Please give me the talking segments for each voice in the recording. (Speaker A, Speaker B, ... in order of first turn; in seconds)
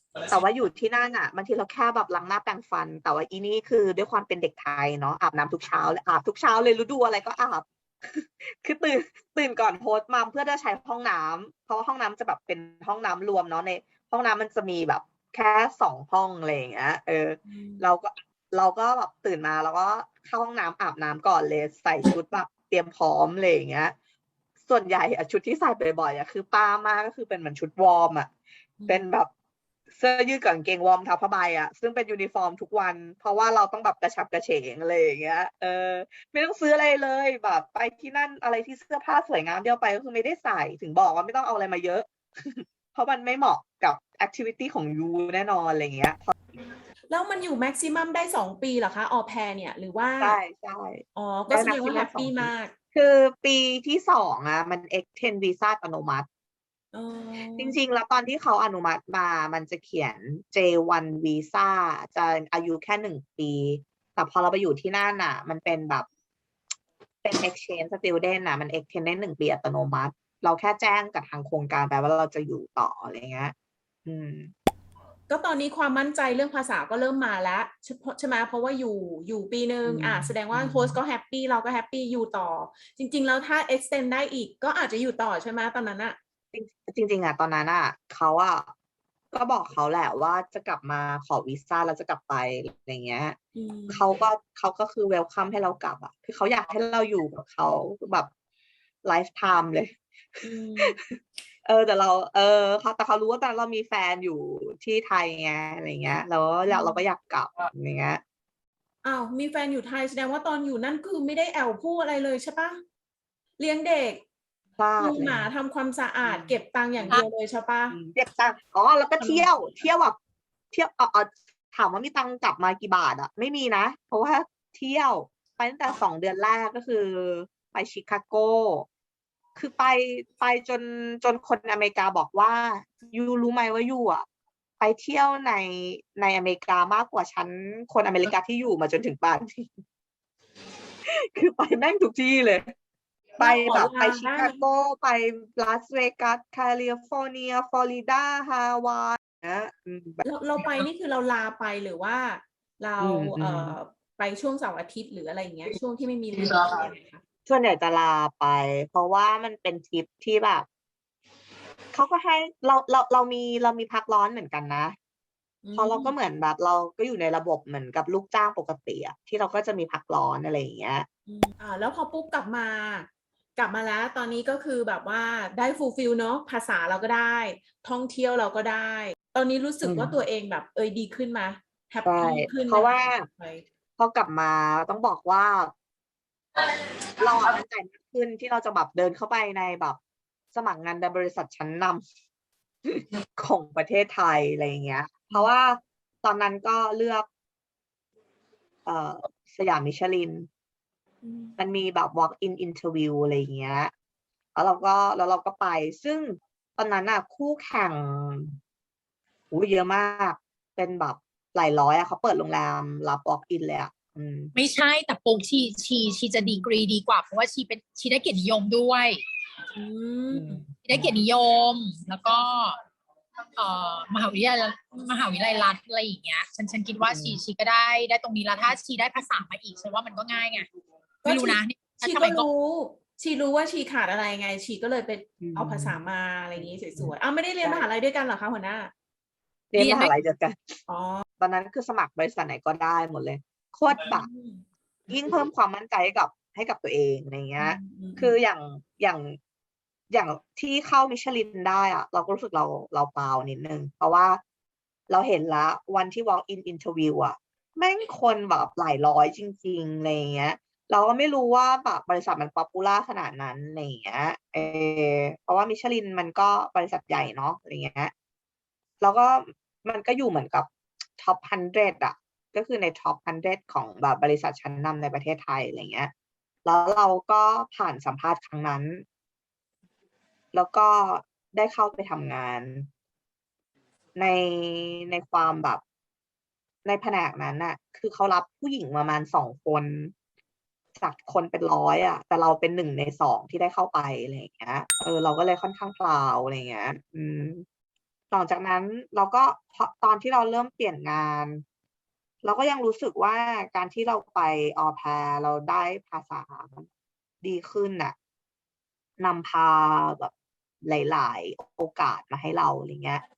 Speaker A: 0.3-23.9, 24.7-28.3, 28.9-29.3, 29.9-46.3, 50.2-56.3, 57.5-66.1, 67.2-73.5, 74.1-74.5, 79.8-81.0, 86.5-88.7, 89.3-93.4, 93.9-98.3, 99.0-108.2, 114.8-115.5, 116.2-117.2, 117.9-120.2, 120.7-128.9, 129.6-134.2, 134.8-139.8, 141.1-142.6, 143.4-150.8, 153.0-153.8, 157.5-160.7, 161.9-164.9, 165.8-171.1, 179.8-180.2, 182.0-183.3, 184.0-185.7, 187.2-190.0, 190.5-192.0, 192.9-197.3, 198.9-200.5, 201.6-203.9, 204.6-208.6, 209.5-214.5, 220.3-221.2, 227.0-227.4, 235.4-236.0, 236.6-237.9, 239.7-240.8, 241.4-244.3, 245.1-249.4, 250.1-254.4, 255.1-268.1, 269.0-276.1, 276.6-279.1, 280.5-282.9, 284.2-285.8, 286.9-290.1, 291.0-297.6, 298.3-301.6, 302.4-306.9, 307.4-308.1, 309.2-310.3, 310.8-313.2
Speaker B: 17.5-17.9, 28.8-29.1, 47.1-50.4, 51.2-52.7, 56.9-57.8, 75.3-86.2, 93.5-94.1, 100.4-101.0, 106.7-107.0, 109.0-112.8, 113.6-114.2, 115.0-118.0, 119.2-119.5, 143.4-144.6, 150.2-157.2, 165.6-166.1, 171.3-183.6, 201.2-201.6, 219.7-220.6, 231.2-238.9, 240.9-241.2, 243.9-244.7, 247.6-248.3
Speaker C: 214.6-219.2, 220.8-222.8, 223.6-230.7, 231.3-232.5, 239.8-240.1